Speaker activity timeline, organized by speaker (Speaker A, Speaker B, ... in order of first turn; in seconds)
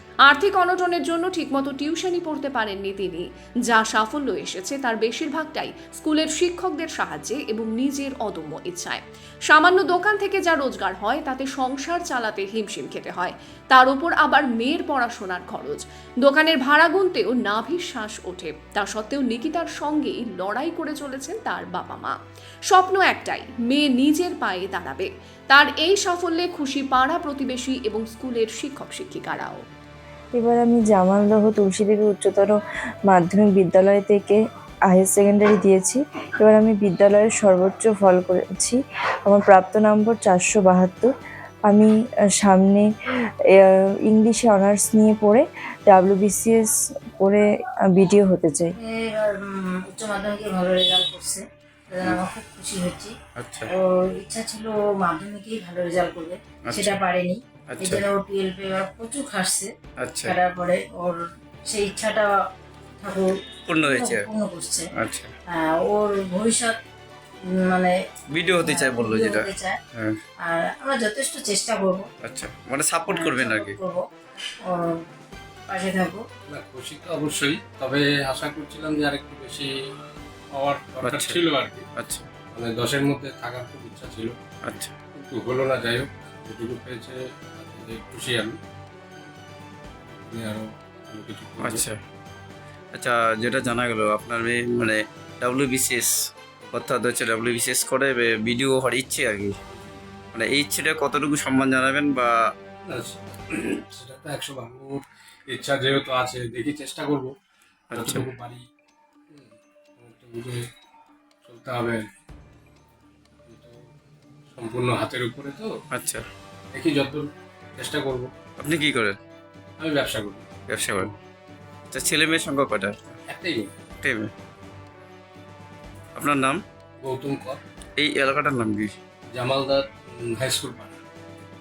Speaker A: 0.2-22.2, 22.7-29.6
Speaker B: 30.3-32.5, 33.1-34.4, 34.9-41.1, 41.7-42.9, 43.5-48.7
Speaker C: 48.8-53.1, 53.7-59.7, 60.2-62.3, 63.0-64.9, 65.5-66.8, 67.6-69.8, 70.4-72.0, 73.1-75.0, 75.7-76.2
Speaker D: 53.4-53.7, 56.6-57.0, 57.7-58.0, 60.0-60.4, 63.7-64.3, 65.0-65.3, 68.3-70.2, 72.2-73.8, 81.0-81.4, 82.0-82.3, 84.6-84.9, 91.6-92.0, 92.9-96.1, 96.7-99.5, 100.3-102.4, 107.9-108.2, 115.9-116.2, 118.6-119.2, 120.7-121.1, 121.9-123.0, 124.0-124.3, 126.2-126.6, 128.0-128.9
Speaker E: 76.5-79.7, 80.5-81.9, 82.5-84.4, 85.1-88.6, 90.1-91.8, 102.9-107.3, 107.9-108.6, 109.3-110.6, 111.4-112.0, 113.5-113.8, 114.5-115.7, 116.7-118.3, 119.8-120.5, 123.3-123.7, 127.0-127.6, 129.3-131.0